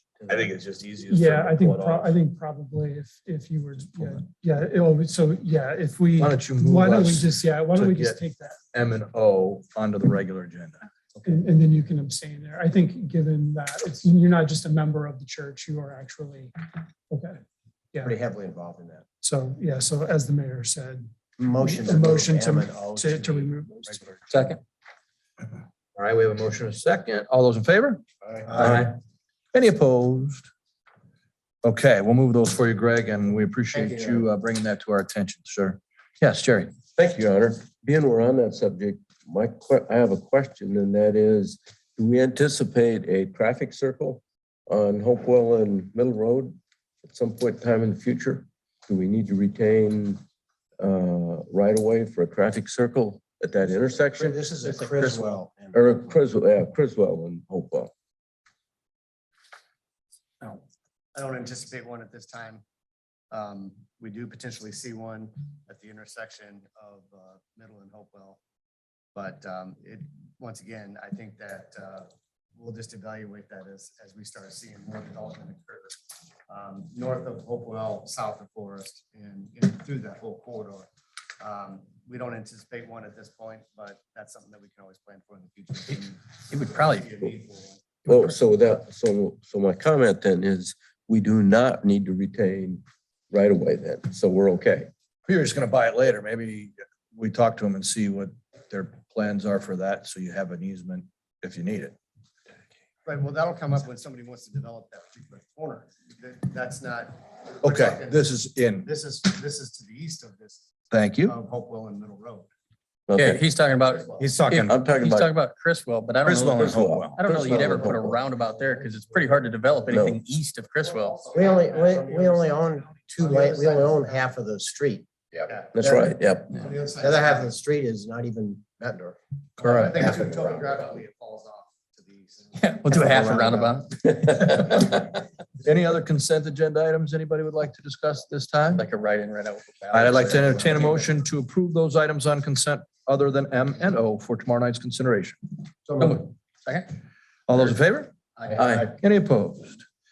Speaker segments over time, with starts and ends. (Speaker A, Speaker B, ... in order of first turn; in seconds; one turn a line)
Speaker A: 0.3-2.1
Speaker B: 1.1-8.6
Speaker A: 6.2-8.2
Speaker A: 8.7-11.4
Speaker B: 11.2-16.5
Speaker B: 17.1-17.4
Speaker C: 18.0-19.0
Speaker B: 19.2-24.1
Speaker C: 21.4-23.5
Speaker D: 24.3-24.6
Speaker A: 25.9-28.9
Speaker A: 29.5-30.5
Speaker A: 31.6-36.7
Speaker C: 33.8-34.2
Speaker E: 36.9-50.2
Speaker E: 50.8-57.9
Speaker C: 54.1-56.2
Speaker F: 61.1-62.6
Speaker F: 63.3-68.4
Speaker F: 69.1-80.9
Speaker F: 81.4-87.8
Speaker D: 86.5-87.2
Speaker D: 88.1-88.4
Speaker E: 88.1-94.9
Speaker A: 95.3-101.9
Speaker F: 103.0-108.2
Speaker A: 107.6-108.9
Speaker F: 108.8-110.7
Speaker A: 110.9-111.4
Speaker F: 111.2-112.5
Speaker E: 113.1-113.4
Speaker D: 113.2-121.3
Speaker F: 113.8-114.2
Speaker A: 114.2-114.7
Speaker E: 114.5-115.3
Speaker A: 116.2-117.2
Speaker E: 116.5-118.2
Speaker E: 119.9-120.2
Speaker F: 121.1-122.3
Speaker C: 121.3-125.1
Speaker F: 123.2-123.8
Speaker E: 125.7-126.5
Speaker C: 125.8-126.2
Speaker F: 126.6-127.5
Speaker C: 127.0-129.2
Speaker A: 129.6-130.0
Speaker F: 129.6-133.7
Speaker C: 130.0-130.7
Speaker D: 132.6-134.7
Speaker C: 133.1-133.5
Speaker A: 134.2-135.1
Speaker A: 135.6-138.8
Speaker D: 138.7-141.0
Speaker A: 139.9-145.5
Speaker C: 145.9-146.2
Speaker D: 146.0-146.9
Speaker A: 147.5-148.1
Speaker E: 148.6-148.9
Speaker A: 148.9-149.8